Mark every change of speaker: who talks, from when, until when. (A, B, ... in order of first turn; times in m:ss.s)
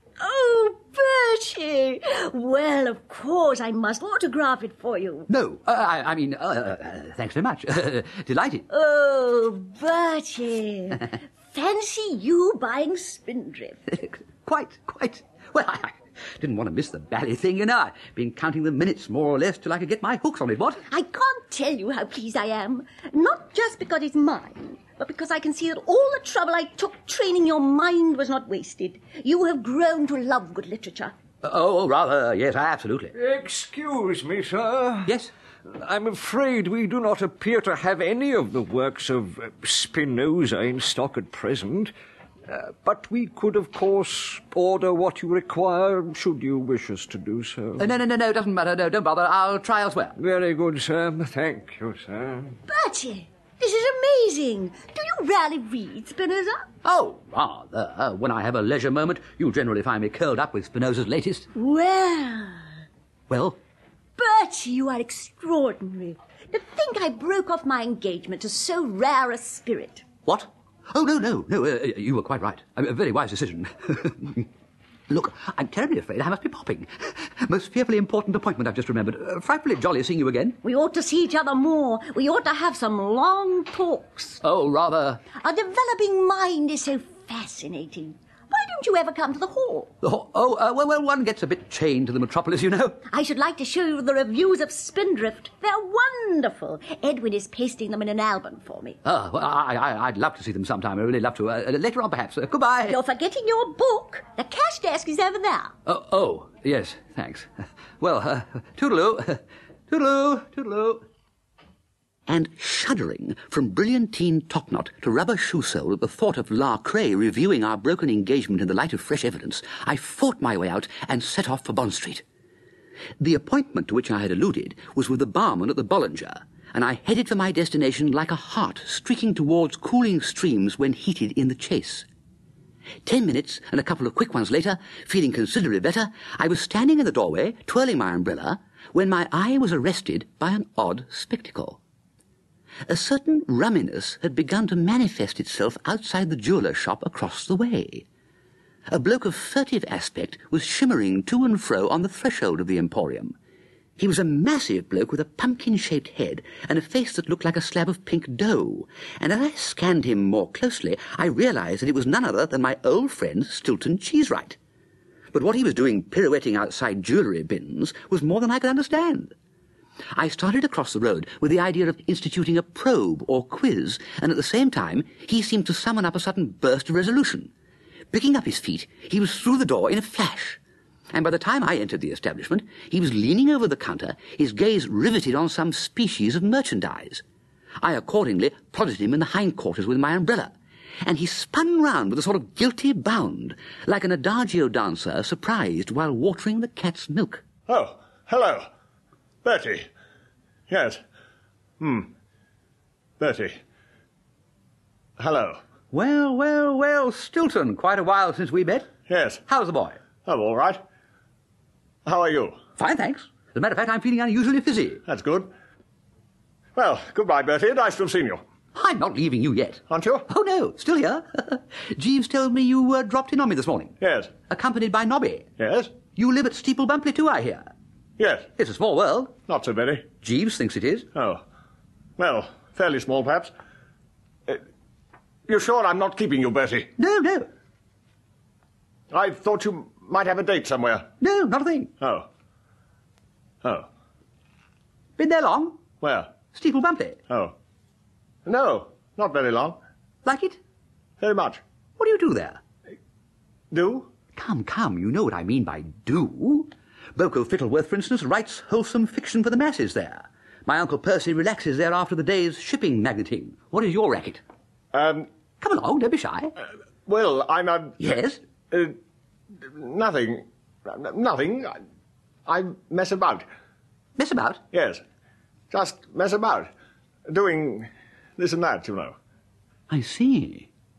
0:00.2-0:05.3 A
0:05.3-0:08.7 B
0:08.7-0:13.8 A
0:13.9-0:20.8 B
0:20.9-0:31.2 A
0:31.4-0:33.1 B
0:33.2-0:35.1 C
0:35.8-0:41.9 C
0:42.8-0:47.8 C
0:47.8-0:50.2 B
0:50.2-0:52.4 C
0:52.7-0:56.7 A
0:56.8-1:01.5 B
1:01.6-1:02.6 A
1:03.3-1:03.6 B
1:04.2-1:10.1 A
1:10.3-1:14.5 B
1:15.1-1:20.6 B
1:20.6-1:24.4 A
1:24.4-1:25.3 B
1:25.3-1:29.9 A
1:30.0-1:33.0 B
1:33.1-1:39.0 A
1:39.0-1:43.0 B
1:42.9-1:45.7 A
1:45.9-1:47.5 B
1:48.0-1:51.0 B
1:52.3-2:02.2 B
2:03.2-2:12.1 B
2:13.0-2:21.8 B
2:22.9-2:28.1 B
2:28.9-2:33.4 B
2:34.0-2:44.6 B
2:45.3-2:49.3 B
2:50.2-2:57.5 B
2:58.1-3:00.6 B
3:01.1-3:07.2 B
3:07.8-3:10.5 B
3:11.0-3:17.4 B
3:17.7-3:18.7 D
3:19.4-3:19.9 D
3:20.7-3:21.0 D
3:21.8-3:22.1 D
3:23.2-3:23.6 D
3:25.2-3:25.6 D
3:25.9-3:28.9 B
3:29.1-3:29.4 D
3:29.5-3:30.0 B
3:30.2-3:30.8 D
3:32.0-3:32.6 D
3:32.8-3:35.0 B
3:35.1-3:35.5 D
3:36.8-3:38.4 D
3:38.8-3:44.0 B
3:39.9-3:40.3 D
3:44.0-3:44.3 D
3:44.5-3:45.5 B
3:45.6-3:46.0 D
3:46.1-3:47.7 B
3:48.2-3:48.5 D
3:48.6-3:49.3 B
3:49.5-3:50.1 D
3:50.2-3:51.1 B
3:51.2-3:51.4 D
3:52.2-3:53.5 D
3:55.5-3:56.9 D
3:57.0-3:57.5 B
3:59.1-4:01.1 D
4:01.2-4:01.9 B
4:02.0-4:02.3 D
4:03.6-4:03.9 D
4:05.2-4:05.8 B
4:06.0-4:06.3 D
4:06.5-4:07.2 B
4:07.3-4:07.5 D
4:08.5-4:09.8 D
4:10.2-4:10.6 B
4:11.2-4:11.6 D
4:12.0-4:12.6 B
4:13.7-4:14.1 D
4:14.4-4:24.4 B
4:24.9-4:25.3 D
4:25.6-4:26.5 B
4:27.1-4:28.0 D
4:28.0-4:28.4 B
4:28.7-4:29.0 D
4:29.6-4:31.8 D
4:32.5-4:33.5 D
4:34.2-4:34.6 B
4:34.7-4:35.0 D
4:35.7-4:36.7 D
4:37.3-4:39.2 D
4:39.9-4:40.7 B